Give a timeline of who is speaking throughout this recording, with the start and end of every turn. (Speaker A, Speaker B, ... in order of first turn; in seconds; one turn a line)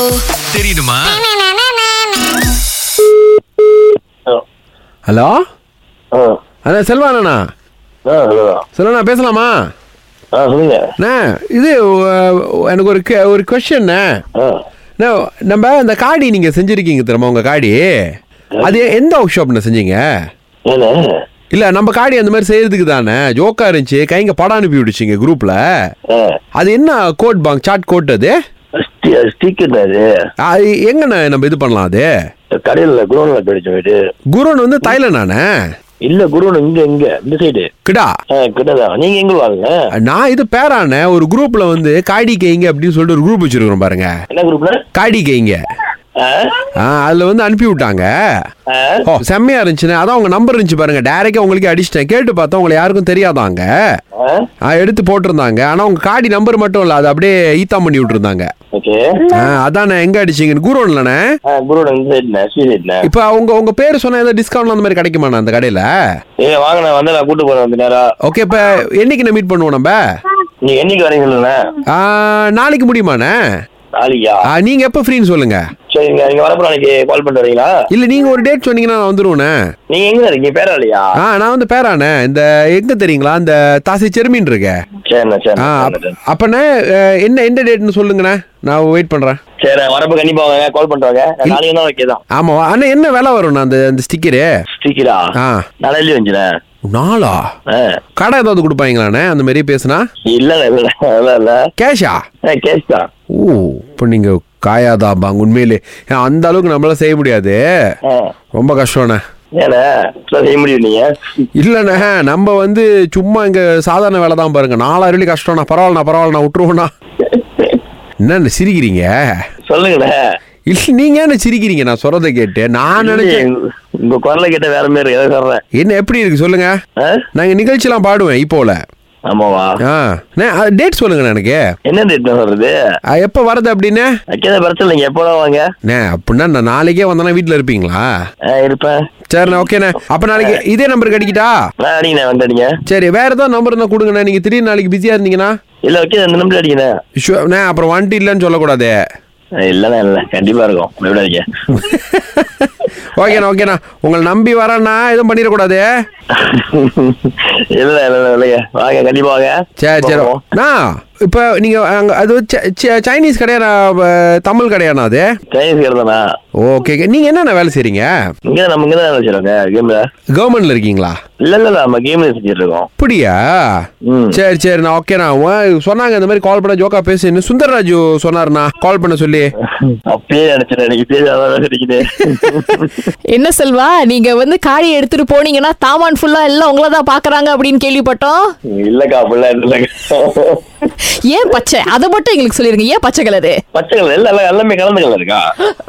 Speaker A: 0.5-1.2
Speaker A: 5.1-5.4
Speaker B: 6.1-6.4
Speaker A: 6.7-7.4
Speaker B: 8.1-8.7
Speaker A: 8.8-9.5
Speaker B: 10.3-10.9
Speaker A: 11.0-14.0
Speaker B: 14.4-14.6
Speaker A: 15.0-17.8
Speaker B: 18.6-18.8
Speaker A: 18.6-20.0
Speaker B: 20.7-21.1
Speaker A: 21.5-25.6
Speaker B: 26.1-26.4
Speaker A: 26.6-28.4
Speaker B: 28.8-30.1
Speaker A: 30.4-32.1
Speaker B: 32.6-34.0
Speaker A: 34.3-35.5
Speaker B: 36.0-37.7
Speaker A: 37.9-38.1
Speaker B: 38.3-39.8
Speaker A: 40.0-44.1
Speaker B: 44.3-44.8
Speaker A: 44.9-45.6
Speaker B: 46.2-46.6
Speaker A: 46.8-48.1
Speaker B: 48.7-49.0
Speaker A: 49.1-53.7
Speaker B: 54.2-54.5
Speaker A: 54.7-58.5
Speaker B: 58.7-59.0
Speaker A: 59.3-61.2
Speaker B: 61.5-63.1
Speaker A: 63.0-65.9
Speaker B: 66.4-68.0
Speaker A: 68.2-70.0
Speaker B: 70.6-71.6
Speaker A: 71.9-73.3
Speaker B: 74.0-74.5
Speaker A: 74.5-75.6
Speaker B: 75.9-77.8
Speaker A: 77.9-79.5
Speaker B: 79.9-81.2
Speaker A: 81.2-84.8
Speaker B: 85.1-86.2
Speaker A: 85.6-89.4
Speaker B: 89.6-92.2
Speaker A: 92.3-94.5
Speaker B: 94.7-95.3
Speaker B: 95.8-96.5
Speaker A: 96.9-97.5
Speaker B: 97.7-98.0
Speaker A: 98.2-100.0
Speaker B: 100.3-101.6
Speaker A: 101.8-102.2
Speaker B: 102.5-103.1
Speaker A: 103.3-107.6
Speaker B: 108.1-108.3
Speaker A: 108.5-109.2
Speaker B: 109.6-111.1
Speaker A: 111.6-116.9
Speaker B: 117.3-117.8
Speaker A: 118.2-119.4
Speaker B: 119.7-120.2
Speaker A: 120.7-123.4
Speaker B: 123.0-125.6
Speaker A: 125.7-126.8
Speaker B: 127.0-127.3
Speaker A: 127.3-128.8
Speaker B: 129.3-129.8
Speaker A: 129.8-131.6
Speaker B: 131.9-132.8
Speaker A: 133.1-134.1
Speaker B: 134.3-135.7
Speaker A: 135.9-138.1
Speaker B: 138.5-139.0
Speaker A: 139.3-141.6
Speaker B: 141.8-142.7
Speaker A: 142.9-145.5
Speaker B: 145.8-146.9
Speaker A: 147.2-148.9
Speaker B: 149.6-151.9
Speaker A: 151.8-155.9
Speaker B: 156.3-160.4
Speaker A: 159.8-165.3
Speaker B: 165.5-166.2
Speaker A: 166.6-168.1
Speaker B: 168.5-170.1
Speaker A: 170.3-171.2
Speaker B: 171.4-172.9
Speaker A: 173.0-179.5
Speaker B: 174.1-174.4
Speaker B: 179.9-183.1
Speaker C: 183.3-188.5
Speaker B: 188.7-190.6
Speaker C: 191.3-193.6
Speaker B: 193.7-195.4